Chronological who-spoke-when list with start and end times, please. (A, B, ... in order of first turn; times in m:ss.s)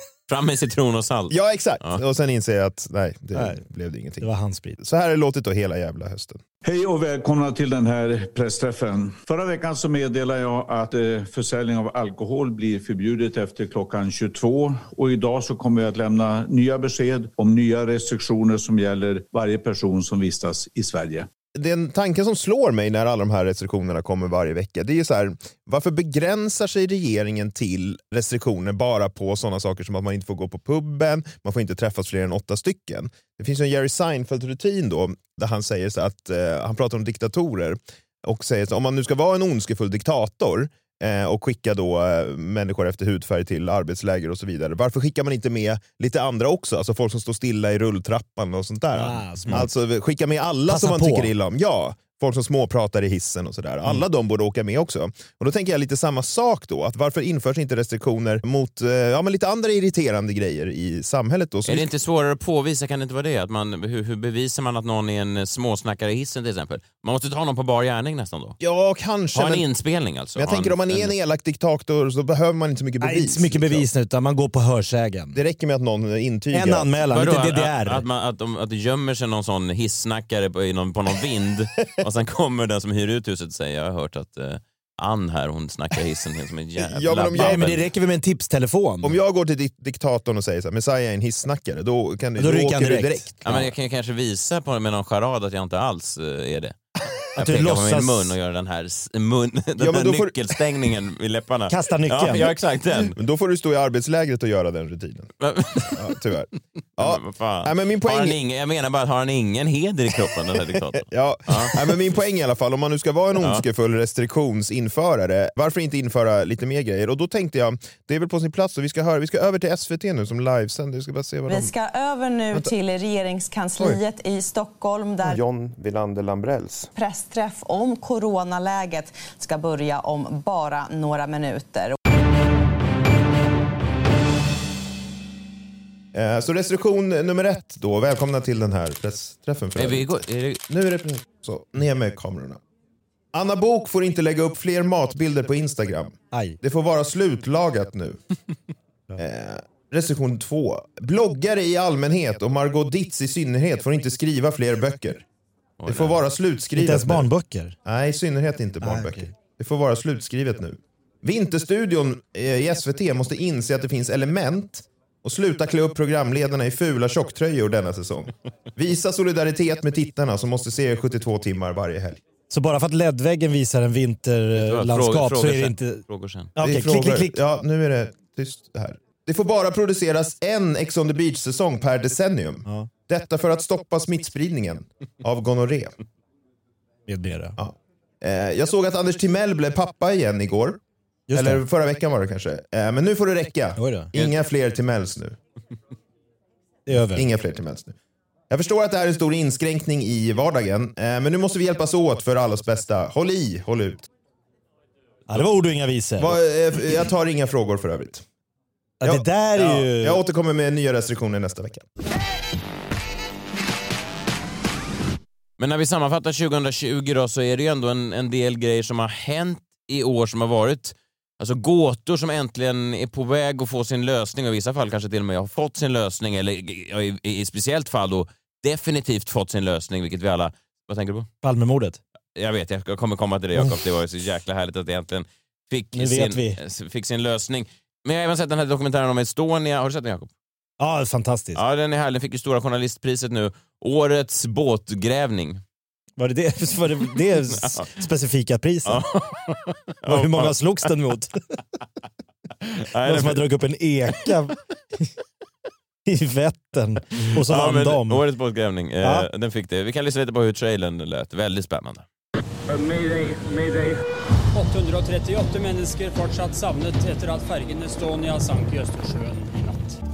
0:00.3-0:02.0 A
0:01.3-0:06.4 B
0:03.3-0:03.6 C
0:04.2-0:04.8 C
0:06.6-0:21.3 D
0:21.6-1:01.9 B
0:48.9-0:49.7 C
0:50.7-0:51.3 C
1:01.6-1:08.6 A
1:08.6-1:09.6 B
1:09.3-1:11.1 A
1:10.4-1:13.8 B
1:13.0-1:15.4 C
1:15.3-1:16.9 B
1:16.5-1:18.0 C
1:17.1-1:27.8 A
1:26.8-1:27.7 B
1:27.3-1:29.2 C
1:29.0-1:33.6 B
1:32.4-1:33.3 C
1:33.4-1:36.8 A
1:37.4-1:38.3 C
1:37.4-1:43.1 A
1:39.8-1:40.4 B
1:41.7-1:42.5 C
1:43.1-1:45.3 B
1:45.4-1:46.0 A
1:45.9-1:48.4 B
1:47.0-1:51.8 A
1:51.0-2:01.7 B
2:01.5-2:05.4 E
2:05.2-2:06.9 B
2:06.9-2:12.0 E
2:16.1-2:22.6 B
2:19.8-2:20.6 A
2:23.3-2:28.2 B
2:26.3-2:26.6 C
2:29.2-2:35.2 B
2:35.8-2:36.2 A
2:35.8-2:37.3 B
2:36.7-2:37.8 C
2:37.8-2:52.2 B
2:38.8-2:39.3 C
2:52.5-2:56.0 C
2:54.5-2:56.5 A
2:56.6-2:57.4 C
2:56.6-3:06.0 B
3:02.6-3:02.9 C
3:07.1-3:07.6 C
3:07.6-3:10.8 B
3:11.3-3:11.6 C
3:11.3-3:15.4 B
3:13.8-3:14.1 C
3:16.9-3:17.3 C
3:17.0-3:17.9 B
3:18.5-3:24.0 B
3:25.3-3:26.4 C
3:26.2-3:28.2 B
3:29.0-3:30.2 C
3:29.0-3:31.8 B
3:35.6-3:51.3 A
3:51.4-3:52.0 C
3:52.4-4:00.3 A
3:55.9-3:56.6 C
4:00.8-4:01.6 C
4:01.5-4:05.6 A
4:06.2-4:09.0 C
4:07.6-4:07.9 A
4:08.8-4:10.6 A
4:10.0-4:11.3 C
4:12.7-4:13.4 A
4:13.0-4:14.5 C
4:16.0-4:18.2 C
4:17.4-4:22.0 A
4:19.0-4:19.3 C
4:24.5-4:30.0 F